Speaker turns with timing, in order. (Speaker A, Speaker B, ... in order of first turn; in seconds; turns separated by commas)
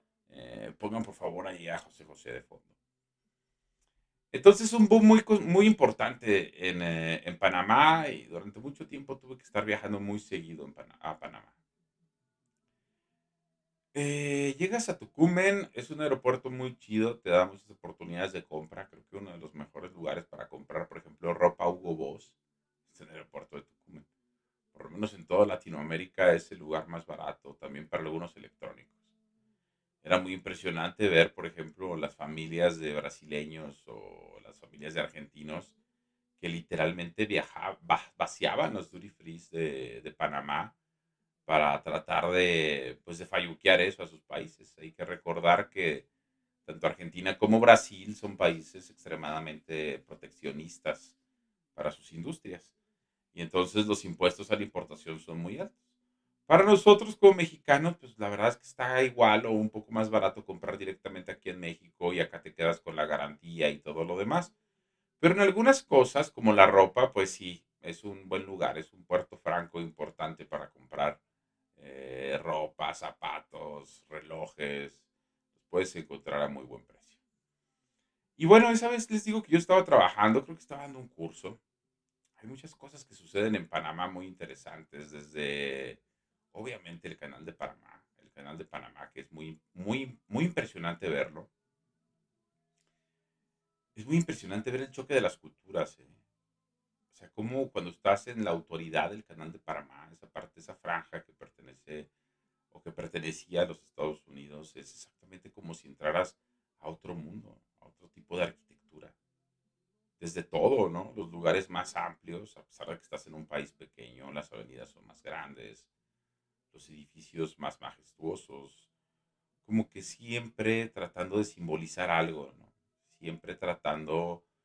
Speaker A: 0.3-2.7, Speaker A: 4.3-11.5, Speaker A: 13.9-22.4, Speaker A: 22.9-24.1, Speaker A: 24.7-28.9, Speaker A: 30.0-35.7, Speaker A: 36.4-40.7, Speaker A: 41.5-46.1, Speaker A: 46.6-51.1, Speaker A: 51.8-52.7, Speaker A: 53.3-55.7, Speaker A: 56.5-64.5, Speaker A: 65.2-71.2, Speaker A: 71.8-75.0, Speaker A: 75.6-77.2, Speaker A: 78.4-81.6, Speaker A: 82.4-86.0, Speaker A: 86.5-91.5, Speaker A: 94.0-96.2, Speaker A: 97.1-102.1, Speaker A: 102.7-109.2, Speaker A: 110.2-115.9, Speaker A: 116.7-118.9, Speaker A: 119.7-124.4